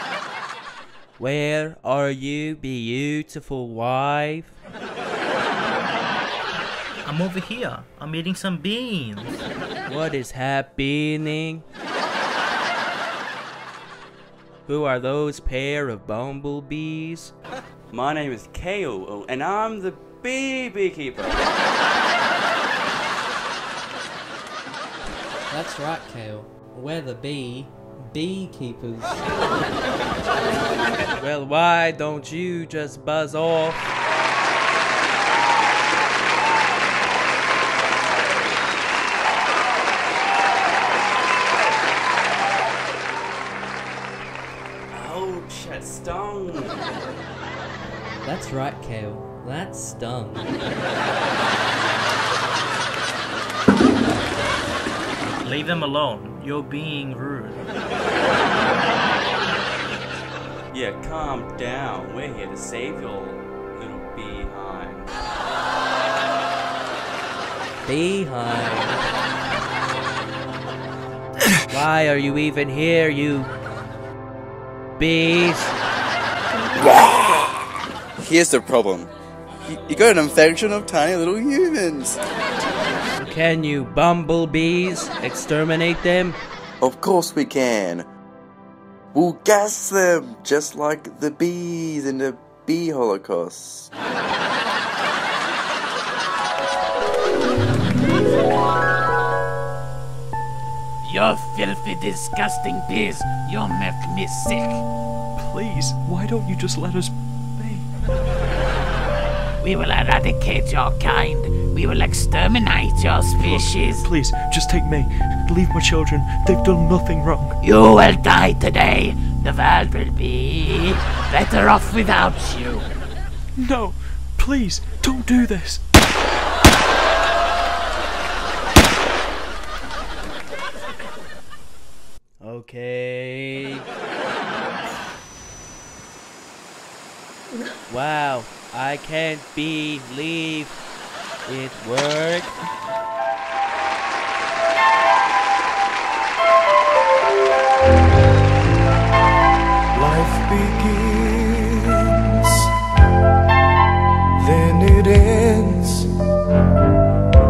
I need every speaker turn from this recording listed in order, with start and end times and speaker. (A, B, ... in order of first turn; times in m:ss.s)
0:01.2-0:04.6 A
0:07.0-0:09.4 B
0:09.8-0:11.6 A
0:14.7-0:17.3 A
0:17.9-0:21.4 C
0:25.5-0:29.2 D
0:31.2-0:33.8 A
0:38.1-0:38.6 C
0:44.9-0:46.9 C
0:48.2-0:50.5 D
0:55.4-0:57.6 B
1:00.7-1:05.1 C
1:07.8-1:09.0 A
1:11.7-1:13.5 A
1:15.0-1:15.8 A
1:16.8-1:17.5 E
1:18.2-1:19.1 E
1:19.6-1:22.2 E
1:23.2-1:26.4 A
1:26.8-1:28.1 E
1:29.1-1:33.9 E
1:41.0-1:44.8 F
1:45.4-1:47.9 G
1:49.6-1:54.0 F
1:53.3-1:57.6 G
1:57.6-2:02.9 F
2:03.6-2:05.8 G
2:12.4-2:13.8 A
2:17.9-2:20.8 A
2:21.4-2:22.5 A
2:29.9-2:32.7 H
2:34.4-2:36.1 H